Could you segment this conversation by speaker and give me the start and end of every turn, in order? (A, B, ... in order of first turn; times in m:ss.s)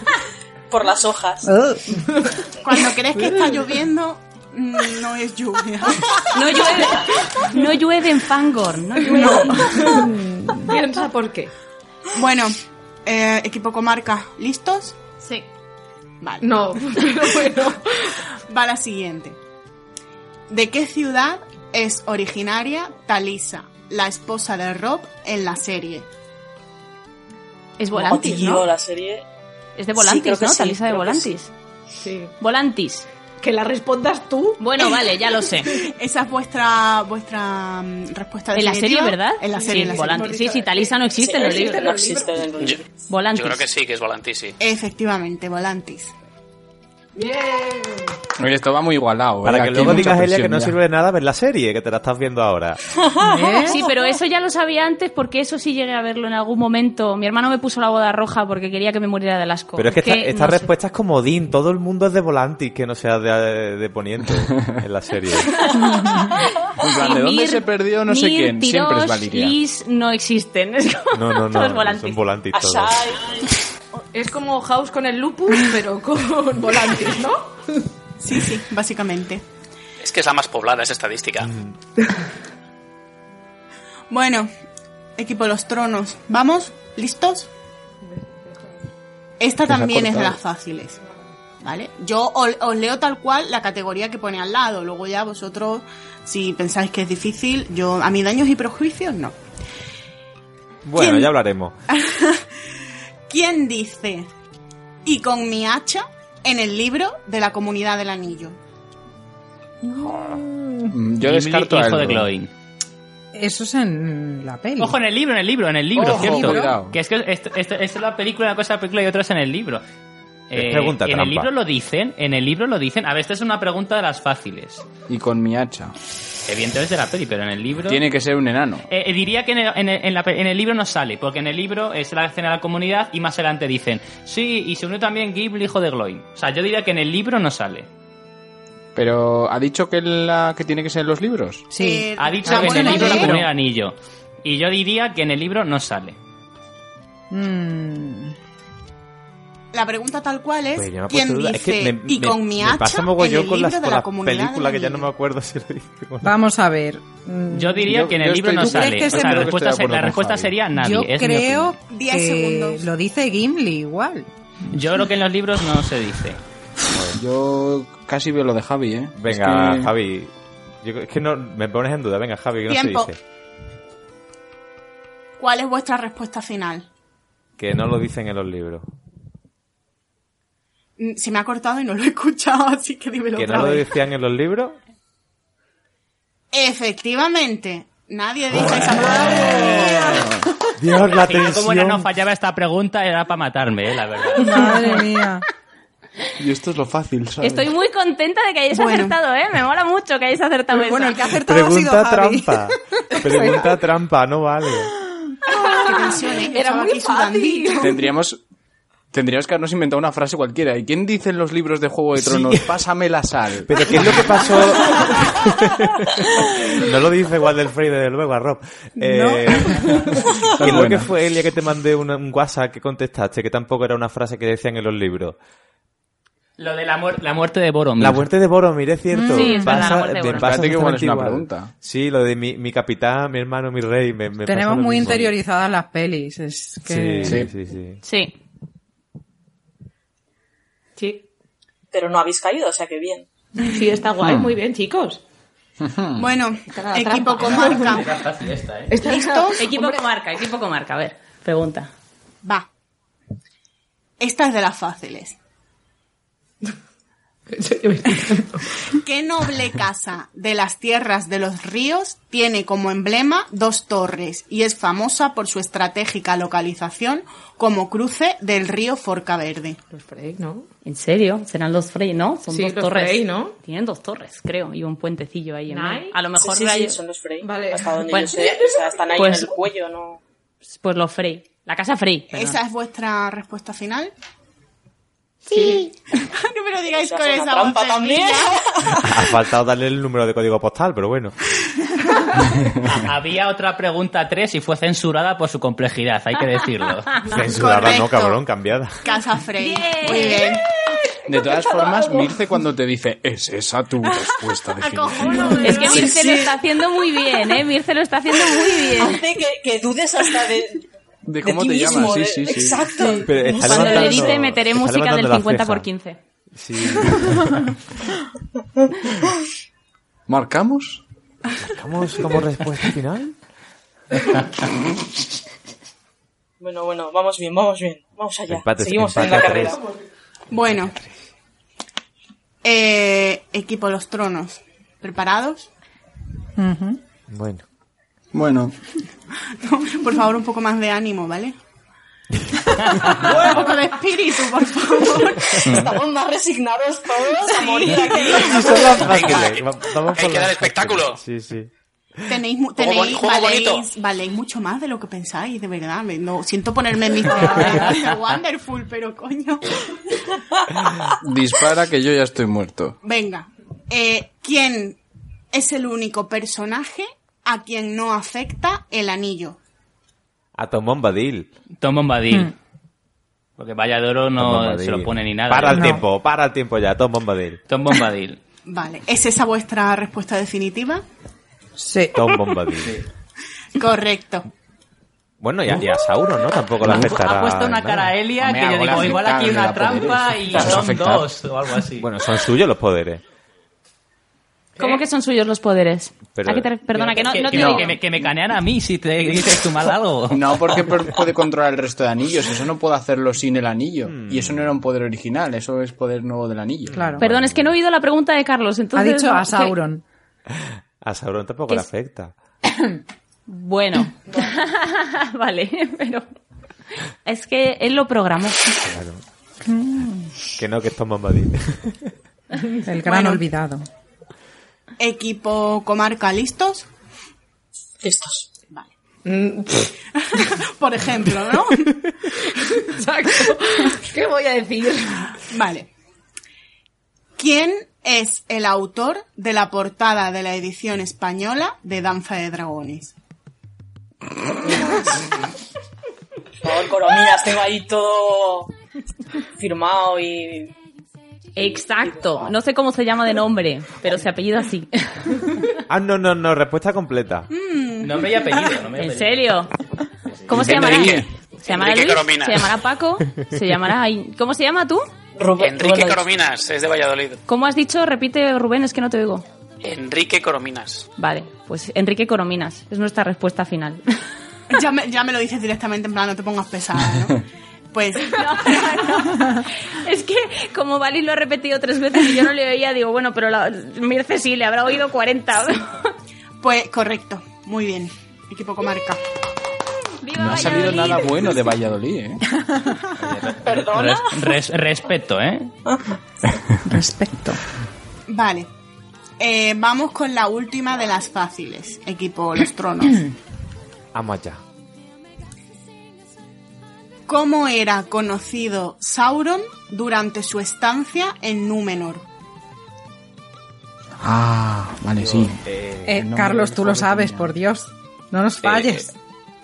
0:00.7-0:01.5 A
0:01.5-0:02.0 B
0:02.0-0:02.4 C
0:02.6-0:06.3 D
0:03.2-0:03.6 C
0:06.3-0:10.1 E
0:07.1-0:07.4 C
0:09.0-0:11.5 C
0:12.2-0:15.0 D
0:15.2-0:15.5 E
0:16.2-0:17.1 D
0:16.4-0:18.2 C
0:18.5-0:19.4 D
0:20.5-0:26.1 D
0:27.8-0:28.6 E
0:27.9-0:29.2 A
0:29.8-0:31.5 E
0:30.0-0:31.3 A
0:32.0-0:32.3 C
0:32.4-0:33.1 E
0:33.4-0:34.6 C
0:34.6-0:35.8 E
0:35.8-0:40.4 D
0:38.5-0:42.0 E
0:39.5-0:42.4 C
0:41.2-0:42.8 A
0:43.1-0:43.7 E
0:43.3-0:44.6 F
0:44.6-0:46.1 D
0:47.2-0:48.2 C
0:48.4-0:50.8 G
0:49.4-0:52.8 H
0:53.2-0:53.8 B
0:53.2-0:53.6 A
0:53.6-1:00.7 E
0:59.8-1:05.7 H
1:05.7-1:12.2 E
1:06.8-1:09.6 G
1:11.1-1:13.0 H
1:12.5-1:13.5 A
1:14.1-1:17.9 C
1:18.2-1:19.4 D
1:20.0-1:21.5 F
1:21.4-1:21.8 H
1:24.1-1:24.5 D
1:25.2-1:27.5 D
1:28.1-1:28.7 C
1:29.4-1:31.0 D
1:29.7-1:30.4 G
1:31.6-1:39.4 D
1:40.8-1:41.8 H
1:41.0-1:41.3 D
1:41.9-1:42.5 D
1:43.3-1:44.3 D
1:45.0-1:48.6 D
1:49.8-1:51.0 B
1:50.9-1:52.3 G
1:51.2-1:52.5 I
1:53.4-1:55.0 B
1:54.8-1:59.8 I
1:56.0-1:56.8 B
1:56.0-1:57.0 G
2:00.5-2:04.8 I
2:00.5-2:01.5 H
2:05.1-2:05.9 G
2:06.5-2:08.0 I
2:07.8-2:08.9 G
2:08.9-2:17.9 I
2:19.0-2:21.7 G
2:21.7-2:23.4 B
2:21.8-2:23.4 D
2:22.2-2:26.2 I
2:27.3-2:28.3 B
2:29.7-2:35.1 D
2:30.8-2:36.3 H
2:36.2-2:37.9 B
2:37.5-2:41.8 I
2:37.9-2:40.6 G
2:38.5-2:39.6 B
2:40.7-2:44.3 B
2:41.9-2:42.9 D
2:44.7-2:46.4 I
2:46.9-2:47.2 H
2:47.1-2:49.9 G
2:49.2-2:53.2 H
2:52.7-2:53.1 D
2:55.4-2:56.9 D
2:57.6-2:58.8 H
3:01.0-3:03.9 D
3:03.4-3:04.8 H
3:06.5-3:10.3 D
3:10.0-3:10.4 G
3:10.8-3:12.1 H
3:11.0-3:15.0 I
3:14.4-3:15.4 B
3:16.4-3:17.7 G
3:17.4-3:21.3 E
3:18.7-3:19.2 D
3:20.7-3:23.8 B
3:21.4-3:24.9 H
3:25.5-3:28.1 C
3:25.7-3:28.0 D
3:27.8-3:28.4 G
3:29.1-3:34.4 G
3:32.2-3:32.7 H
3:33.7-3:45.4 H
3:39.0-3:40.0 B
3:40.5-3:41.1 G
3:46.6-3:48.3 I
3:48.0-3:55.3 H
3:49.1-3:49.8 B
3:49.3-3:50.5 E
3:50.3-3:51.7 G
3:54.5-3:57.4 B
3:56.9-3:58.0 H
3:57.2-3:57.5 G
3:58.0-3:58.3 E
4:01.0-4:01.2 C
4:01.9-4:03.3 A
4:03.6-4:05.2 C
4:05.8-4:06.3 G
4:06.2-4:08.2 D
4:06.7-4:08.1 C
4:07.4-4:08.9 I
4:08.9-4:10.0 C
4:09.0-4:09.7 D
4:09.6-4:11.9 E
4:14.2-4:15.4 D
4:17.5-4:18.8 C
4:19.0-4:29.8 D
4:29.9-4:30.7 C
4:30.8-4:37.0 E
4:32.5-4:33.6 C
4:35.7-4:36.2 C
4:36.4-4:40.2 A
4:37.4-4:39.1 C
4:39.2-4:39.6 E
4:40.7-4:42.6 E
4:42.3-4:44.1 D
4:45.5-4:45.9 C
4:45.5-4:49.1 D
4:46.9-4:49.0 A
4:49.0-4:51.4 H
4:52.8-4:57.3 I
4:57.3-4:59.0 H
4:57.3-4:58.4 D
4:59.0-5:00.6 D
4:59.6-5:00.6 E
5:01.3-5:06.1 G
5:01.3-5:02.4 C
5:04.8-5:06.5 C
5:05.6-5:09.2 E
5:05.9-5:06.5 A
5:08.9-5:10.8 A
5:11.2-5:12.9 G
5:11.4-5:14.4 A
5:13.2-5:15.9 H
5:13.6-5:16.2 E
5:16.5-5:17.7 H
5:20.3-5:21.0 G
5:21.6-5:23.4 H
5:26.6-5:29.8 A
5:28.5-5:29.8 H
5:29.4-5:30.0 C
5:30.5-5:31.0 D
5:32.6-5:35.7 D
5:36.6-5:37.0 B
5:37.3-5:37.6 H
5:38.3-5:38.7 G
5:39.6-5:41.6 D
5:42.8-5:43.1 I
5:43.0-5:45.8 D
5:45.6-5:45.9 I
5:45.6-5:49.2 A
5:47.6-5:48.2 C
5:48.3-5:51.7 H
5:49.0-5:51.2 F
5:52.3-5:59.8 D
5:52.8-5:53.9 F
6:01.2-6:03.0 G
6:03.0-6:05.0 D
6:05.5-6:09.6 D
6:10.6-6:11.5 H
6:11.8-6:12.5 I
6:13.6-6:16.0 I
6:14.4-6:17.6 H
6:15.7-6:16.0 B
6:17.7-6:18.4 I
6:18.7-6:21.0 D
6:21.8-6:22.7 B
6:22.1-6:23.0 H
6:23.8-6:24.5 D
6:25.4-6:28.1 H
6:26.8-6:32.1 I
6:28.4-6:31.3 G
6:32.0-6:33.2 H
6:34.8-6:38.0 E
6:36.4-6:36.7 H
6:37.2-6:37.6 C
6:37.3-6:40.8 I
6:37.5-6:37.9 G
6:40.3-6:47.1 G
6:44.1-6:44.7 H
6:46.9-6:47.7 H
6:46.9-6:47.2 B
6:47.2-6:49.8 E
6:49.0-6:50.0 B
6:50.5-6:52.3 H
6:53.5-6:56.2 E
6:57.2-6:58.7 E
6:58.8-6:59.2 H
6:59.6-7:00.3 B
7:00.6-7:02.1 H
7:02.8-7:03.9 B
7:05.0-7:06.9 D
7:08.0-7:08.5 A
7:09.3-7:09.9 C
7:10.2-7:12.2 D
7:12.5-7:15.4 C
7:15.5-7:15.9 D
7:17.4-7:23.1 D
7:24.6-7:25.2 A
7:26.6-7:28.7 A
7:29.6-7:30.7 A
7:31.6-7:35.7 E
7:32.1-7:32.5 A
7:35.9-7:37.5 H
7:37.5-7:38.8 D
7:38.0-7:39.4 I
7:39.0-7:39.7 E
7:40.4-7:40.8 I
7:40.5-7:45.0 E
7:40.5-7:41.3 G
7:41.7-7:42.7 F
7:45.4-7:46.3 A
7:45.6-7:47.4 F
7:47.5-7:49.5 E
7:49.8-7:51.1 F
7:51.2-7:54.0 E
7:54.7-7:59.0 D
7:58.3-8:06.1 E
8:06.6-8:09.2 D
8:10.2-8:11.6 E
8:10.4-8:12.4 G
8:12.7-8:13.1 B
8:13.2-8:15.7 I
8:13.6-8:14.6 A
8:16.9-8:17.6 B
8:18.3-8:18.7 D
8:19.4-8:23.3 D
8:24.1-8:24.6 H
8:27.3-8:32.2 D
8:34.2-8:35.6 G
8:35.2-8:36.2 H
8:36.1-8:39.1 B
8:36.2-8:37.6 G
8:38.6-8:39.0 H